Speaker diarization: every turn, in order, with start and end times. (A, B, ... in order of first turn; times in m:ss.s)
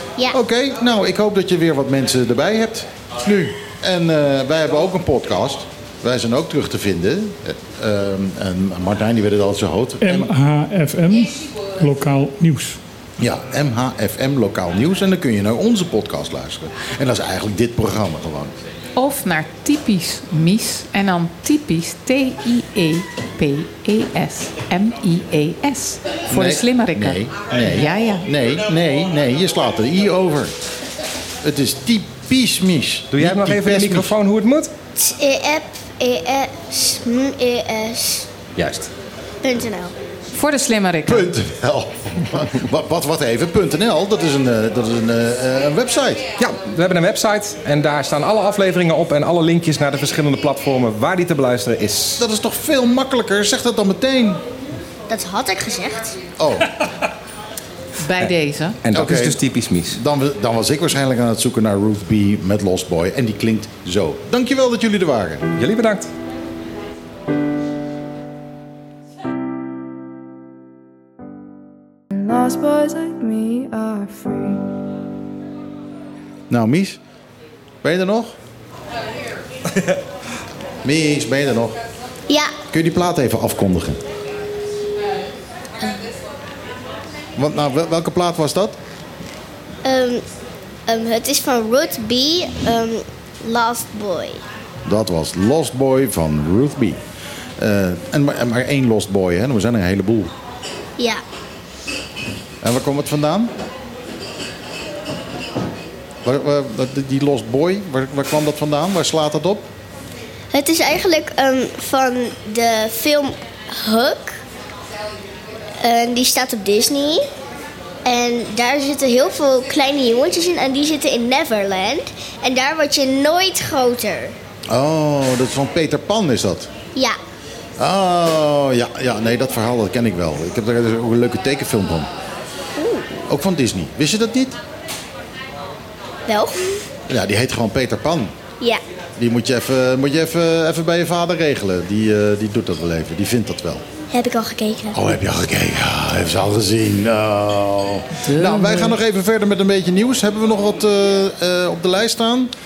0:00.3-0:10.3 A
0:10.0-0:12.8 B
0:13.2-0:18.5 A
0:19.0-0:28.3 C
0:26.3-0:30.5 A
0:31.4-0:34.1 A
0:33.1-0:34.7 D
0:35.0-0:38.3 E
0:38.6-0:38.9 D
0:39.4-0:39.9 E
0:40.3-0:41.3 C
0:41.1-0:46.2 A
0:46.4-0:52.2 D
0:52.2-0:54.4 A
0:55.1-0:56.2 E
0:56.4-0:56.8 A
0:58.0-0:58.8 C
0:58.8-1:00.0 D
0:58.9-1:05.4 A
1:05.6-1:06.1 D
1:12.1-1:14.7 F
1:16.5-1:17.0 A
1:17.8-1:18.3 A
1:20.8-1:21.8 A
1:22.7-1:24.0 A
1:27.4-1:28.8 A
1:29.8-1:30.2 E
1:30.9-1:34.4 E
1:34.8-1:37.0 A
1:37.6-1:40.3 A
1:42.6-1:43.5 A
1:46.2-1:49.6 A
1:50.5-1:54.4 E
1:55.8-1:57.2 E
1:58.0-2:04.4 E
2:04.7-2:06.7 A
2:07.8-2:12.1 A
2:12.8-2:13.2 E
2:13.3-2:14.6 A
2:16.3-2:16.8 E
2:17.1-2:18.3 A
2:19.2-2:23.8 A
2:24.1-2:25.0 E
2:24.9-2:32.5 A
2:28.2-2:28.9 C